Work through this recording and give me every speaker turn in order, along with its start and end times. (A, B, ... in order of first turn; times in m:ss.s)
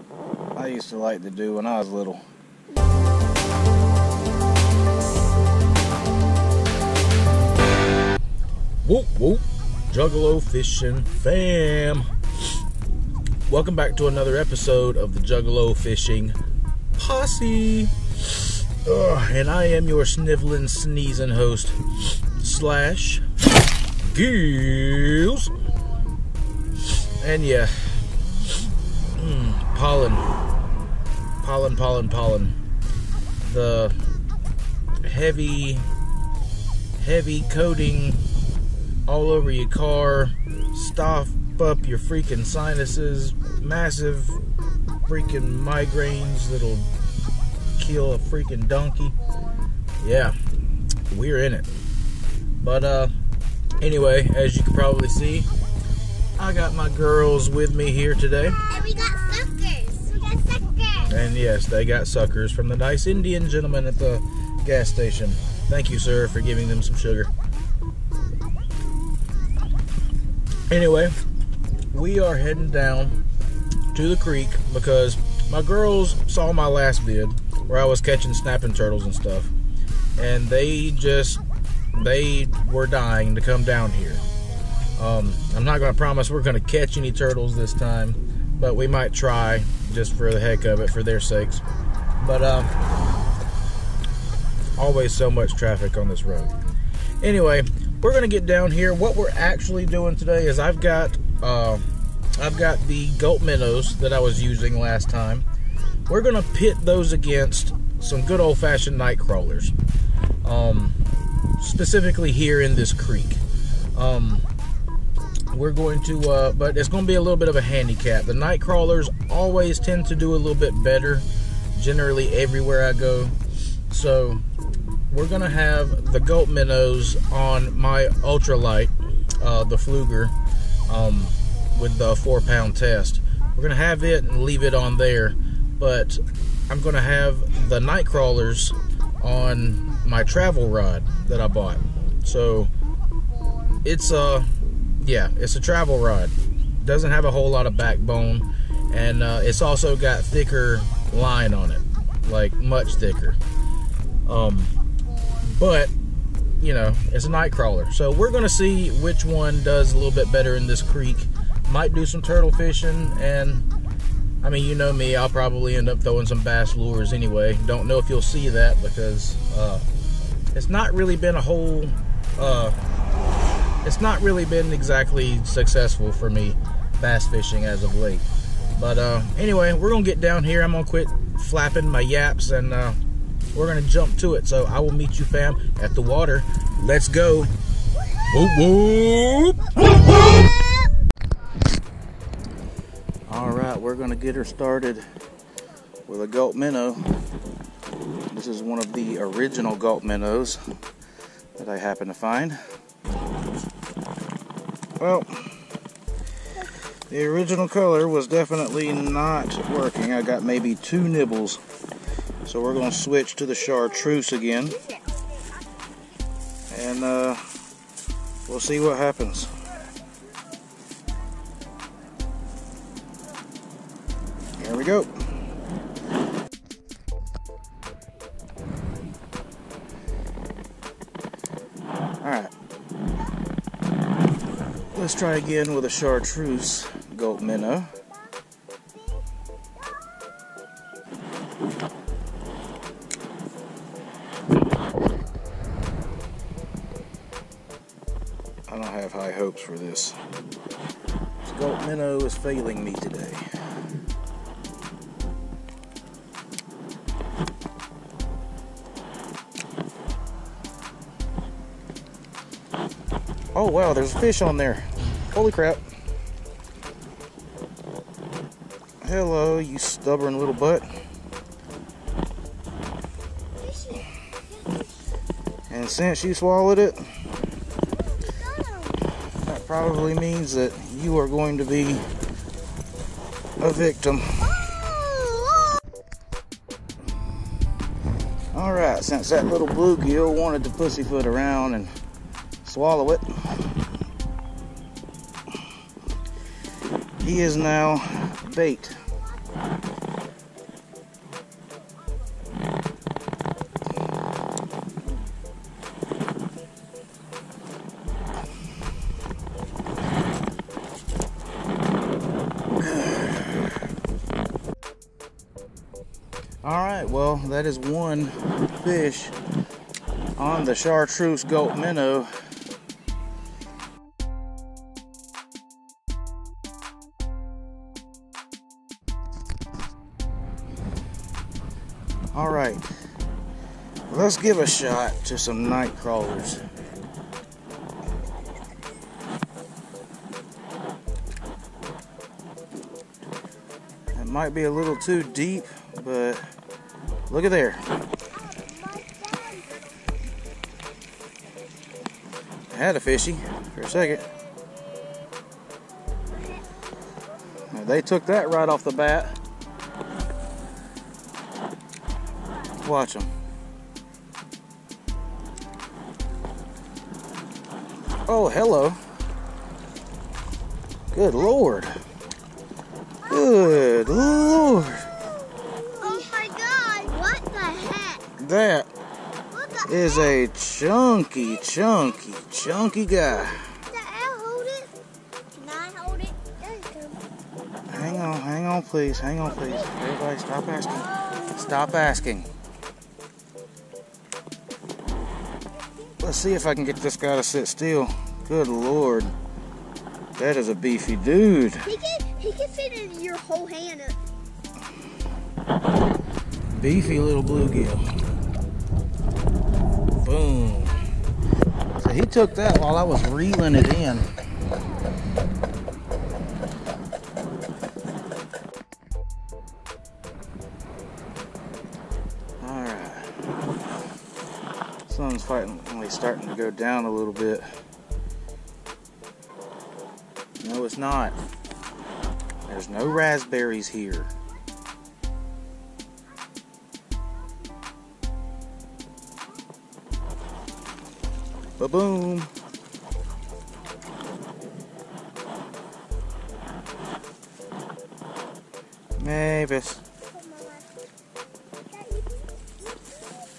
0:00.6-0:02.2 A
0:08.8-0:12.1 A
0:13.4-0:16.4 A
0:17.0-0:21.8 A
0:22.4-0:23.2 A
0:24.0-0:25.5 A
0:27.2-0:28.0 A
0:29.1-0:30.3 A
0:31.4-0:32.6 A
0:33.4-0:34.0 A
0:35.0-0:35.9 A
0:37.0-0:38.2 A
0:39.1-0:44.4 A
0:45.0-0:46.9 A
0:47.8-0:49.2 A
0:50.0-0:50.4 A
0:51.1-0:51.7 A
0:52.6-0:53.1 A
0:53.8-0:55.5 A
0:56.4-0:58.6 A
0:58.6-1:01.2 B
1:01.1-1:07.3 A
1:10.7-1:11.1 A
1:11.9-1:13.2 A
1:13.9-1:19.5 A
1:20.2-1:21.4 A
1:21.9-1:24.2 A
1:25.0-1:31.6 A
1:32.2-1:32.7 A
1:34.8-1:36.6 A
1:37.2-1:41.8 A
1:42.4-1:45.4 A
1:46.1-1:49.7 A
1:50.4-1:51.0 A
1:51.6-1:53.4 A
1:53.9-1:54.4 A
1:55.5-2:03.4 A
2:03.9-2:04.4 A
2:05.1-2:10.3 A
2:10.9-2:22.7 A
2:23.8-2:33.4 A
2:34.2-2:34.7 A
2:35.4-2:35.9 A
2:36.6-2:43.7 A
2:44.4-2:49.8 A
2:50.5-2:52.8 A
2:53.8-3:03.0 A
3:03.5-3:07.5 A
3:08.2-3:09.7 A
3:13.3-3:15.0 A
3:16.1-3:17.0 A
3:18.3-3:20.6 A
3:21.6-3:22.6 A
3:25.0-3:25.5 A
3:27.1-3:31.6 A
3:32.4-3:34.8 A
3:34.8-3:35.6 B
3:36.7-3:37.4 A
3:38.5-3:39.5 A
3:44.6-3:45.1 A
3:52.2-3:52.5 A
3:54.9-3:57.9 A
4:08.7-4:10.2 A
4:11.4-4:13.5 A
4:23.5-4:25.8 A
4:29.0-4:30.9 A
4:33.6-4:34.1 B
4:35.7-4:37.1 A
4:38.2-4:39.1 B
4:39.4-4:42.0 A
4:43.6-4:44.5 A
4:44.6-4:45.8 B
4:48.5-4:51.9 A
4:52.6-4:53.8 A
4:57.2-4:59.0 A
5:12.8-5:13.7 A
5:16.6-5:19.4 A
5:20.4-5:22.3 A
5:32.3-5:32.9 A
5:34.1-5:36.6 A
5:44.1-5:46.4 A
5:47.3-5:47.8 A
5:48.4-5:49.9 B
5:52.7-5:54.3 A
5:57.7-5:59.4 A
6:02.8-6:03.3 A
6:08.3-6:09.0 A
6:11.1-6:11.9 A
6:13.2-6:15.1 A
6:15.6-6:18.2 B
6:18.4-6:18.9 A
6:19.5-6:20.4 B
6:19.8-6:23.8 A
6:23.9-6:24.9 B
6:25.5-6:27.2 B
6:27.9-6:32.5 A
6:30.9-6:32.0 B
6:36.2-6:39.3 A
6:40.4-6:41.9 A
6:41.8-6:44.2 B
6:46.7-6:48.0 A
6:50.2-6:51.0 A
6:52.0-6:54.3 A
7:02.6-7:03.7 A
7:05.1-7:07.7 A
7:10.6-7:11.4 A
7:12.7-7:14.3 A
7:21.8-7:22.5 A
7:29.2-7:30.0 A
7:30.3-7:30.9 B
7:31.9-7:32.7 B